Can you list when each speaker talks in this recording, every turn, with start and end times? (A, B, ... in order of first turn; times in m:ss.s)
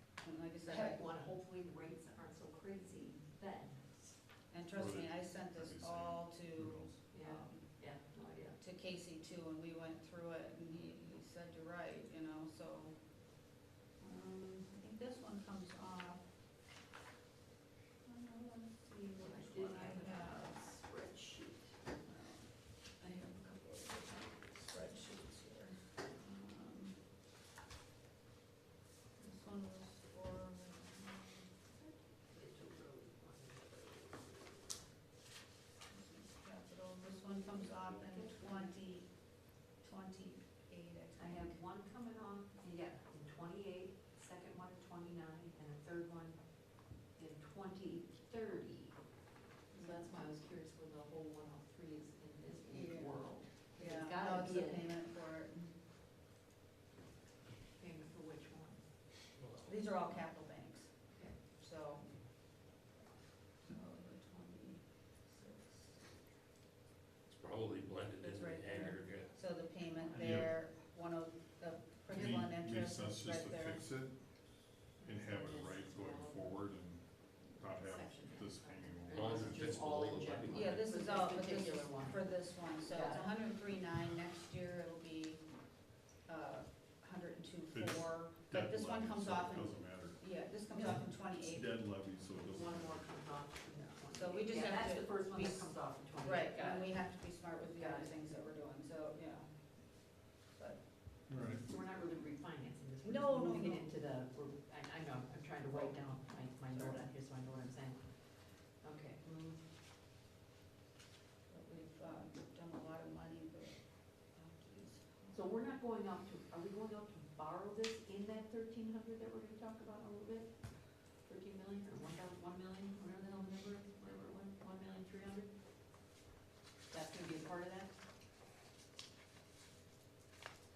0:00.2-0:01.0 A
0:00.6-0:04.1 B
0:04.5-0:07.7 A
0:04.7-0:07.0 C
0:07.1-0:08.6 B
0:08.6-0:13.0 A
0:14.0-0:16.2 A
0:18.0-0:20.5 A
0:19.2-0:21.8 B
0:22.0-0:27.0 A
0:29.2-0:31.6 A
0:31.8-0:34.8 B
0:35.9-0:41.6 A
0:37.5-0:38.7 B
0:41.2-0:46.4 B
0:47.1-0:49.0 B
0:49.7-0:50.2 A
0:49.7-0:54.9 B
0:52.7-0:55.8 A
0:57.8-0:58.9 B
0:59.4-0:59.8 D
0:59.6-1:02.6 A
1:01.1-1:01.4 B
1:03.6-1:06.1 A
1:07.3-1:09.3 D
1:08.2-1:13.9 A
1:10.2-1:10.5 C
1:12.1-1:19.8 C
1:15.0-1:16.6 B
1:17.6-1:23.3 B
1:19.1-1:20.9 D
1:20.5-1:25.4 A
1:26.2-1:31.7 A
1:27.7-1:33.0 C
1:32.5-1:37.0 B
1:33.8-1:40.8 A
1:37.6-1:38.4 B
1:41.3-1:41.6 C
1:41.7-1:49.6 B
1:43.0-1:43.9 A
1:46.7-1:47.0 A
1:51.5-1:53.8 A
1:54.4-1:55.4 A
1:55.3-2:05.5 B
2:06.9-2:08.0 B